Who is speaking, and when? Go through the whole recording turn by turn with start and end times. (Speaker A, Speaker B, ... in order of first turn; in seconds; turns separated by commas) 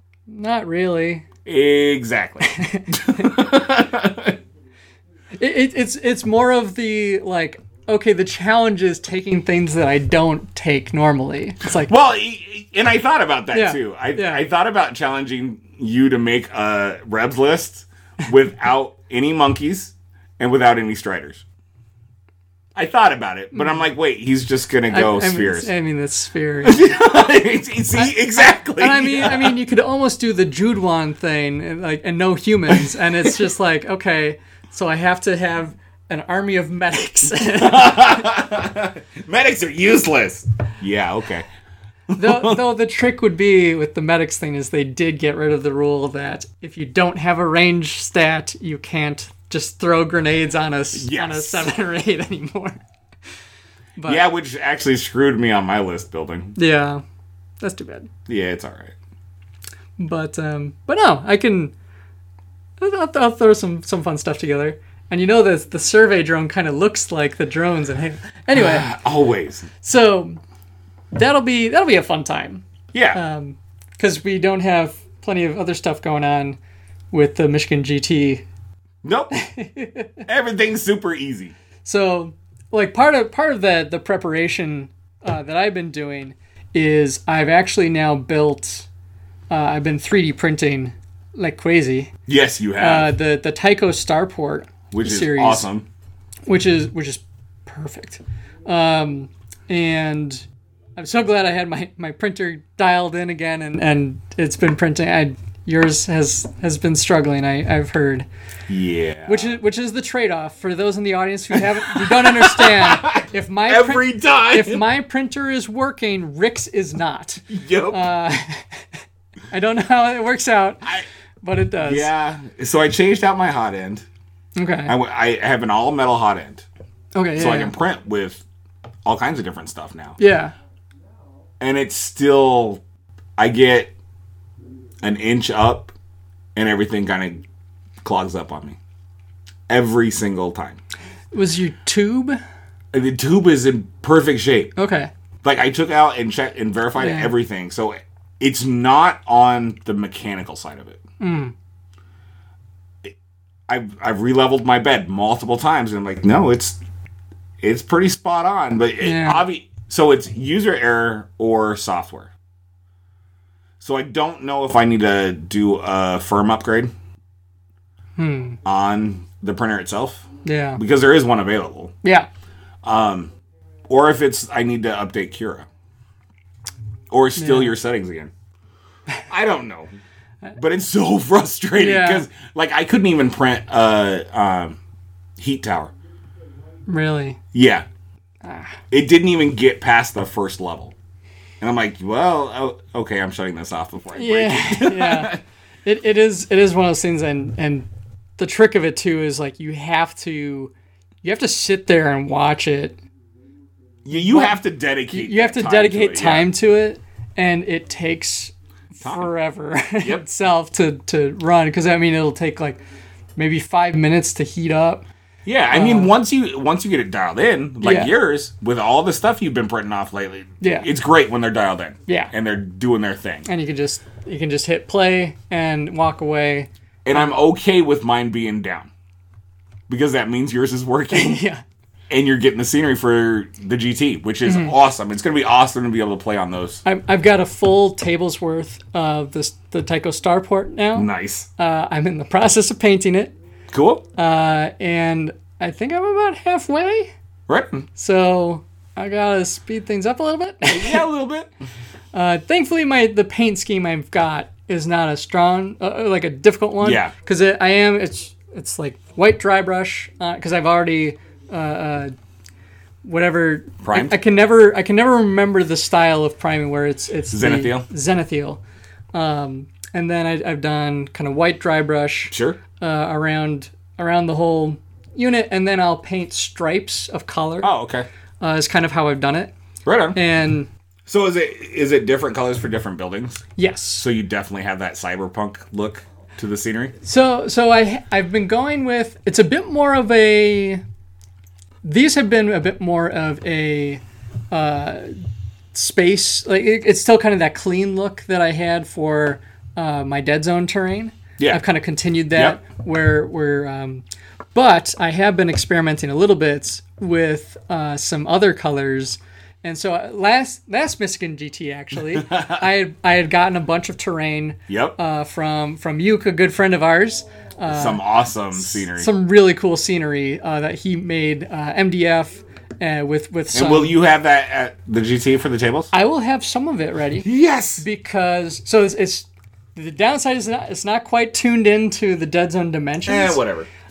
Speaker A: 0.3-1.2, Speaker B: 1.4-4.4, Speaker A: 2.5-3.2, Speaker A: 5.4-11.9, Speaker B: 11.7-21.4, Speaker A: 13.5-14.4, Speaker B: 22.7-25.7, Speaker A: 23.5-23.8, Speaker A: 24.9-26.9, Speaker B: 26.6-29.5, Speaker A: 27.9-38.2, Speaker B: 32.7-33.3, Speaker B: 37.6-41.5, Speaker B: 42.1-42.6, Speaker A: 42.1-52.8, Speaker B: 50.9-51.7, Speaker A: 54.0-54.2, Speaker B: 54.0-56.5, Speaker A: 56.5-57.0, Speaker A: 57.6-58.1, Speaker B: 58.3-58.9, Speaker A: 60.0-61.7, Speaker A: 62.8-68.9, Speaker B: 68.5-69.7, Speaker A: 69.8-70.4, Speaker A: 71.1-72.6, Speaker B: 72.9-73.2, Speaker A: 73.1-76.6, Speaker A: 77.1-78.4, Speaker B: 79.0-79.4, Speaker A: 79.3-80.2, Speaker B: 80.2-81.5, Speaker A: 81.8-88.9, Speaker A: 89.5-92.1, Speaker B: 92.3-93.1, Speaker A: 92.8-95.7, Speaker B: 94.9-95.9, Speaker A: 96.5-100.5, Speaker A: 101.0-108.3, Speaker B: 108.7-109.6, Speaker A: 109.2-118.8, Speaker B: 111.5-114.8, Speaker B: 117.5-118.0, Speaker A: 119.5-120.8, Speaker A: 121.4-122.1, Speaker B: 121.8-124.0, Speaker A: 124.5-124.9, Speaker B: 124.9-126.6, Speaker A: 127.1-127.7, Speaker B: 127.3-128.4, Speaker B: 129.1-130.2, Speaker A: 130.2-130.5, Speaker B: 131.6-132.8, Speaker B: 133.4-133.9, Speaker B: 135.0-135.9, Speaker B: 136.5-137.4, Speaker B: 138.0-138.8, Speaker B: 139.7-140.8, Speaker A: 141.3-142.4, Speaker B: 142.9-144.7, Speaker A: 144.8-145.1, Speaker B: 145.4-151.0, Speaker A: 146.9-147.3, Speaker A: 151.2-151.5, Speaker B: 153.7-156.8, Speaker B: 157.6-162.3, Speaker A: 159.0-159.4, Speaker B: 163.8-166.9, Speaker A: 168.2-168.6, Speaker B: 168.6-171.9, Speaker A: 170.4-170.8, Speaker B: 172.8-173.3, Speaker B: 173.9-175.7, Speaker B: 177.1-178.3, Speaker A: 177.4-177.7, Speaker B: 179.3-179.9, Speaker B: 180.6-184.8, Speaker A: 181.8-182.2, Speaker B: 185.4-185.9, Speaker A: 186.9-187.4, Speaker B: 187.5-187.8, Speaker A: 188.4-188.8, Speaker B: 188.9-190.9, Speaker B: 191.6-195.4, Speaker A: 194.1-197.9, Speaker A: 198.4-200.7, Speaker A: 201.2-203.0, Speaker B: 204.0-206.5, Speaker A: 204.1-204.6, Speaker A: 205.1-212.8, Speaker B: 209.0-209.3, Speaker A: 213.4-215.1, Speaker B: 215.4-223.5, Speaker A: 215.7-216.1, Speaker A: 217.8-218.1, Speaker A: 220.6-220.9, Speaker A: 222.1-222.3, Speaker A: 223.5-227.4, Speaker B: 227.0-228.9, Speaker B: 229.9-231.4, Speaker A: 231.1-231.6, Speaker B: 232.1-236.8, Speaker A: 234.4-234.7, Speaker A: 236.8-243.3, Speaker B: 240.9-241.5, Speaker B: 243.7-244.0, Speaker A: 244.2-247.1, Speaker B: 247.5-247.8, Speaker A: 247.9-251.0, Speaker B: 250.7-251.5, Speaker A: 252.1-262.1, Speaker B: 256.8-257.1, Speaker A: 263.0-268.6, Speaker B: 263.8-264.2, Speaker B: 267.3-267.9, Speaker A: 269.1-277.7, Speaker B: 272.3-272.6, Speaker B: 277.6-278.1, Speaker A: 278.4-279.5, Speaker B: 279.9-280.2, Speaker A: 280.1-280.7, Speaker B: 281.1-283.4, Speaker A: 283.6-284.0, Speaker B: 284.0-286.9, Speaker A: 287.0-290.8, Speaker A: 291.8-295.2, Speaker A: 295.7-318.0, Speaker B: 312.1-312.6, Speaker B: 314.7-314.9, Speaker B: 317.7-319.1, Speaker A: 318.5-323.9, Speaker B: 323.5-325.9, Speaker A: 325.9-333.4, Speaker B: 327.2-327.9, Speaker B: 333.1-333.7